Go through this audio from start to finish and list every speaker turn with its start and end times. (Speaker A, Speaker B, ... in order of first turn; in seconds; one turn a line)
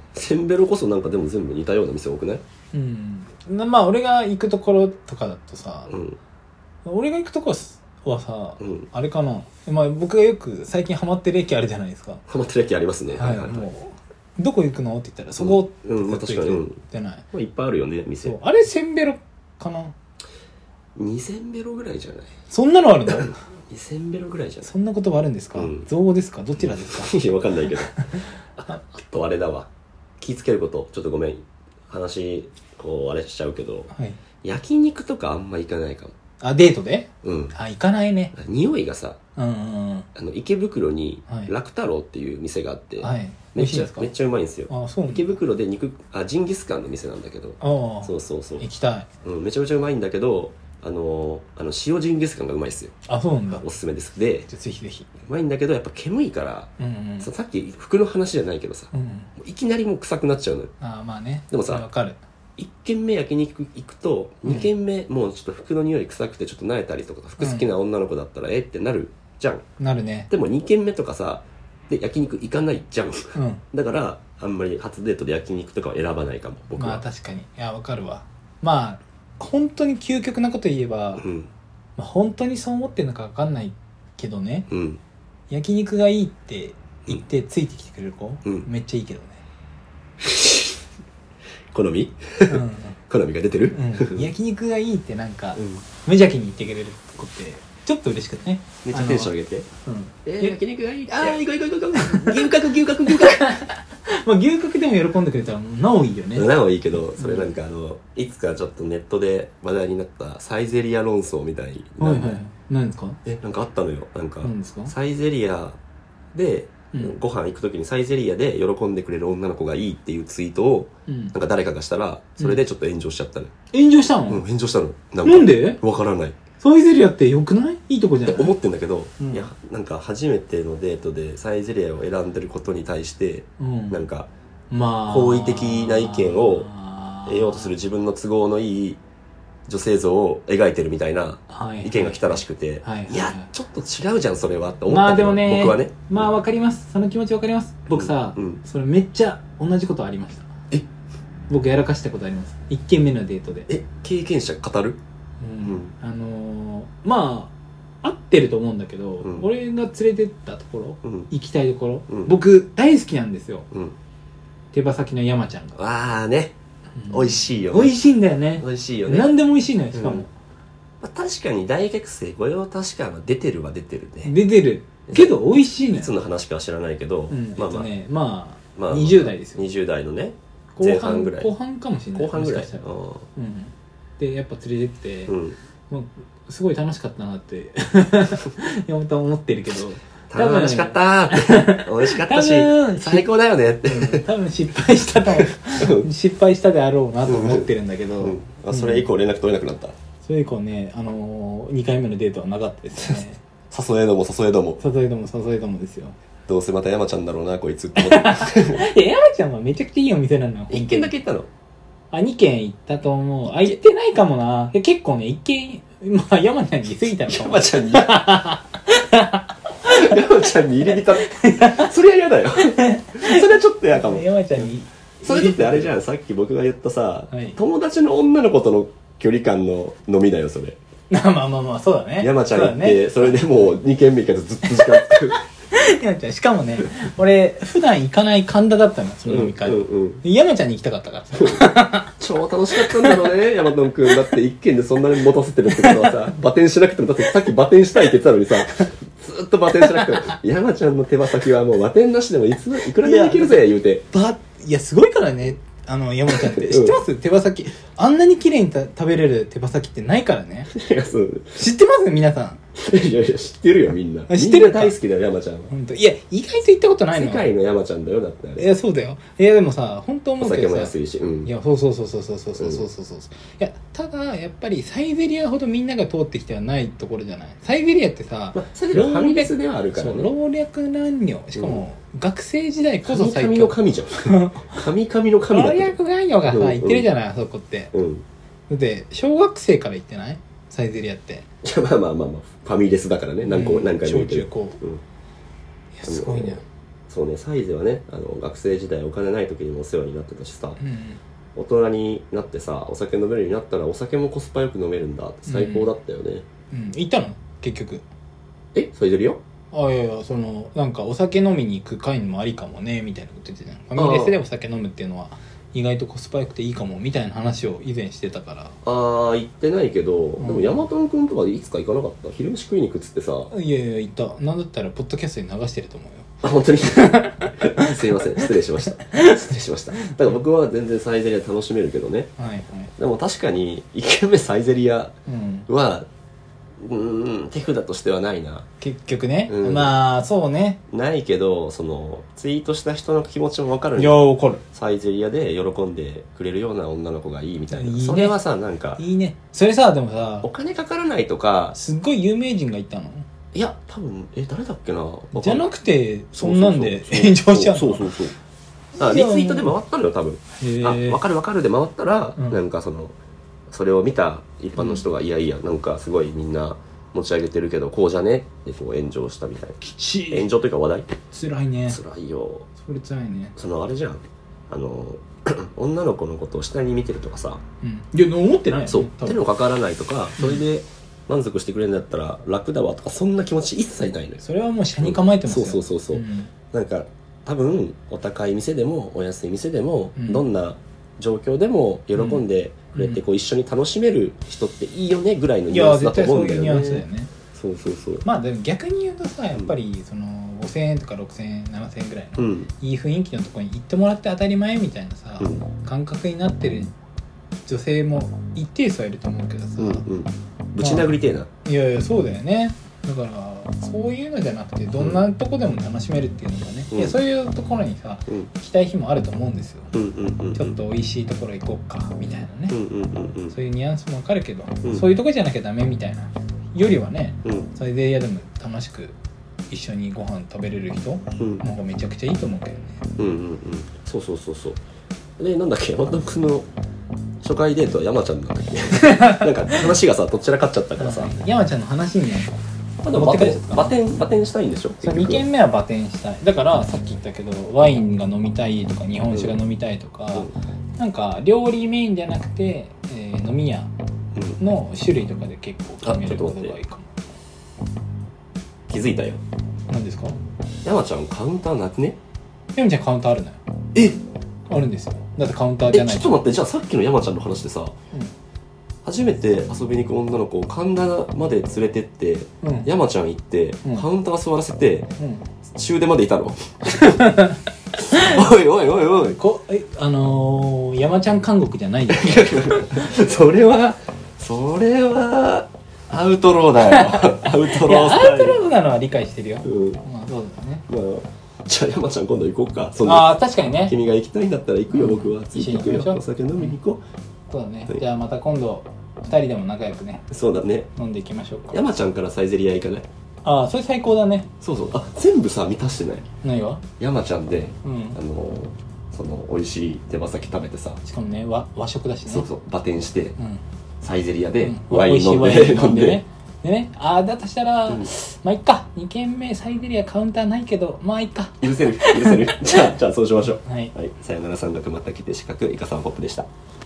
Speaker A: 0.1-2.4
Speaker B: 2.7-5.9
Speaker A: 5.9-6.2
Speaker B: 6.8-12.2
Speaker A: 8.6-8.9
Speaker A: 12.3-13.7
Speaker B: 13.1-17.2
Speaker A: 15.4-16.8
Speaker A: 17.3-18.4
Speaker B: 18.2-19.9
Speaker A: 21.0-22.3
Speaker B: 22.5-23.4
Speaker A: 23.1-24.7
Speaker B: 24.6-27.2
Speaker A: 25.6-25.9
Speaker A: 26.6-27.9
Speaker B: 27.9-28.8
Speaker A: 28.6-33.9
Speaker B: 33.9-34.2
Speaker A: 34.4-36.1
Speaker B: 36.4-38.4
Speaker A: 37.2-37.5
Speaker A: 38.4-39.2
Speaker B: 39.4-40.1
Speaker A: 40.1-48.6
Speaker B: 43.0-44.1
Speaker B: 44.7-45.4
Speaker B: 47.6-49.1
Speaker A: 49.2-53.0
Speaker B: 53.1-53.7
Speaker A: 53.5-54.5
Speaker B: 54.5-55.1
Speaker A: 55.2-60.7
Speaker B: 56.8-57.3
Speaker B: 58.9-59.3
Speaker B: 60.8-62.2
Speaker A: 61.5-61.9
Speaker A: 62.6-69.6
Speaker B: 67.4-67.7
Speaker B: 69.8-70.3
Speaker A: 70.3-77.0
Speaker B: 73.3-73.6
Speaker B: 76.8-81.2
Speaker A: 81.2-81.5
Speaker B: 82.0-84.7
Speaker A: 84.7-85.0
Speaker B: 85.5-89.4
Speaker A: 90.2-90.8
Speaker A: 91.7-94.3
Speaker B: 92.5-93.0
Speaker B: 93.7-99.3
Speaker A: 95.6-95.8
Speaker A: 98.8-99.7
Speaker B: 99.8-100.6
Speaker A: 100.2-103.5
Speaker B: 102.0-102.5
Speaker B: 103.1-106.5
Speaker A: 106.3-112.4
Speaker B: 107.2-107.5
Speaker B: 112.0-113.2
Speaker A: 113.2-115.8
Speaker B: 114.4-114.9
Speaker A: 116.3-123.5
Speaker B: 121.1-121.3
Speaker B: 123.7-124.5
Speaker A: 124.3-126.4
Speaker B: 125.2-125.8
Speaker B: 126.6-128.6
Speaker A: 128.3-134.3
Speaker B: 129.2-129.5
Speaker B: 133.6-134.0
Speaker B: 134.7-137.7
Speaker A: 135.1-136.7
Speaker A: 137.3-139.0
Speaker A: 139.7-146.3
Speaker B: 141.5-143.5
Speaker B: 144.9-150.5
Speaker A: 147.9-148.6
Speaker B: 151.5-153.7
Speaker A: 153.7-155.0
Speaker B: 155.4-163.7
Speaker A: 155.6-155.9
Speaker A: 159.2-159.5
Speaker A: 161.0-161.3
Speaker A: 162.1-162.4
Speaker A: 163.7-164.0
Speaker B: 164.7-165.8
Speaker A: 165.8-166.6
Speaker B: 167.0-170.3
Speaker A: 167.1-168.0
Speaker A: 168.6-169.3
Speaker A: 169.9-170.2
Speaker A: 171.0-174.4
Speaker B: 174.2-176.2
Speaker A: 175.1-177.9
Speaker B: 177.3-179.6
Speaker A: 178.8-181.5
Speaker B: 180.8-185.3
Speaker A: 182.2-183.3
Speaker A: 185.3-185.6
Speaker B: 185.9-193.3
Speaker A: 190.3-194.3
Speaker B: 193.8-199.1
Speaker A: 195.2-196.1
Speaker A: 197.3-199.9
Speaker B: 200.2-203.4
Speaker A: 203.0-204.8
Speaker B: 204.8-206.2
Speaker A: 206.5-208.8
Speaker B: 208.0-211.1
Speaker A: 210.7-211.5
Speaker B: 212.1-220.2
Speaker A: 213.5-213.8
Speaker A: 217.2-218.2
Speaker A: 219.8-224.7
Speaker B: 220.8-221.9
Speaker B: 222.6-225.9
Speaker A: 225.2-230.8
Speaker B: 227.3-227.6
Speaker B: 231.1-233.7
Speaker A: 232.2-235.4
Speaker B: 234.7-242.2
Speaker A: 239.3-240.2
Speaker A: 241.4-241.6
Speaker A: 242.2-254.1
Speaker B: 242.8-243.3
Speaker B: 245.8-246.1
Speaker B: 249.8-250.4
Speaker B: 253.0-260.7
Speaker A: 256.3-257.0
Speaker A: 260.7-261.6
Speaker B: 261.6-262.6
Speaker A: 262.8-265.7
Speaker B: 264.3-265.0
Speaker B: 265.7-267.5
Speaker A: 267.1-268.7
Speaker B: 268.6-270.9
Speaker A: 270.4-271.5
Speaker B: 271.4-284.9
Speaker A: 272.6-272.9
Speaker A: 278.5-280.3
Speaker A: 281.6-281.8
Speaker A: 283.1-287.1
Speaker B: 285.5-287.9
Speaker A: 287.9-288.3
Speaker B: 288.7-291.5
Speaker A: 291.6-295.0
Speaker B: 293.5-294.8
Speaker B: 295.9-296.6
Speaker A: 296.1-300.8
Speaker B: 300.8-301.2
Speaker A: 301.6-306.5
Speaker B: 305.5-305.9
Speaker B: 306.7-308.0
Speaker A: 308.7-309.4
Speaker B: 309.7-318.8
Speaker A: 314.0-314.4
Speaker A: 318.9-323.5
Speaker B: 320.4-320.8
Speaker B: 323.5-326.4
Speaker A: 326.4-332.3
Speaker B: 326.9-330.2
Speaker B: 332.4-332.9
Speaker A: 333.0-335.1
Speaker B: 335.3-335.7
Speaker A: 335.7-336.1
Speaker A: 336.8-338.7
Speaker B: 338.8-340.8
Speaker A: 339.5-339.9
Speaker A: 340.9-349.0
Speaker B: 344.0-344.6
Speaker B: 347.7-348.4
Speaker B: 349.0-350.5
Speaker A: 350.4-351.8
Speaker B: 351.7-353.3
Speaker A: 353.5-355.7
Speaker B: 355.3-358.1
Speaker A: 356.4-358.4
Speaker B: 359.0-359.8
Speaker A: 359.0-363.2
Speaker B: 360.6-361.2
Speaker A: 363.7-371.1
Speaker B: 364.8-365.0
Speaker B: 369.8-370.5
Speaker B: 371.3-372.0
Speaker A: 371.9-372.7
Speaker B: 372.8-373.6
Speaker A: 373.6-377.6
Speaker B: 377.8-379.4
Speaker A: 378.9-384.4
Speaker B: 380.4-380.6
Speaker B: 384.4-386.5
Speaker A: 385.0-398.2
Speaker B: 390.2-390.4
Speaker B: 392.1-392.4
Speaker B: 393.0-393.2
Speaker B: 395.7-397.3
Speaker B: 398.2-406.9
Speaker A: 402.4-402.7
Speaker B: 407.7-410.1
Speaker A: 409.8-411.5
Speaker B: 410.8-419.9
Speaker A: 414.9-415.2
Speaker A: 416.9-417.2
Speaker A: 419.9-420.8
Speaker B: 420.6-422.8
Speaker A: 422.7-423.6
Speaker B: 423.5-429.2
Speaker A: 424.8-425.1
Speaker B: 429.7-433.0
Speaker A: 431.4-431.6
Speaker A: 433.2-434.8
Speaker A: 435.4-436.7
Speaker A: 437.4-441.4
Speaker B: 439.0-439.5
Speaker B: 441.0-442.6
Speaker A: 443.0-445.5
Speaker B: 443.1-443.9
Speaker B: 445.0-453.9
Speaker A: 449.3-449.6
Speaker B: 454.6-457.2
Speaker A: 456.0-456.8
Speaker A: 458.9-459.4
Speaker B: 459.9-460.4
Speaker A: 460.9-462.2
Speaker B: 462.8-463.6
Speaker A: 463.9-464.2
Speaker B: 464.7-466.4
Speaker A: 465.9-467.9
Speaker A: 469.0-475.1
Speaker B: 472.6-472.9
Speaker B: 475.2-475.5
Speaker A: 475.7-477.3
Speaker B: 476.9-478.4
Speaker A: 478.1-479.4
Speaker B: 479.3-483.1
Speaker A: 482.1-488.6
Speaker B: 486.9-490.9
Speaker A: 489.6-490.0
Speaker A: 490.9-497.0
Speaker B: 493.0-493.9
Speaker B: 494.9-496.8
Speaker B: 497.5-500.3
Speaker A: 500.3-500.9
Speaker B: 501.0-501.8
Speaker A: 501.7-503.1
Speaker B: 503.4-504.5
Speaker A: 504.6-506.3
Speaker B: 506.4-506.8
Speaker A: 507.0-511.0
Speaker B: 507.8-508.2
Speaker B: 511.0-512.5
Speaker A: 512.3-513.4
Speaker A: 514.0-516.2
Speaker B: 514.6-522.9
Speaker A: 521.6-526.5
Speaker B: 523.6-523.9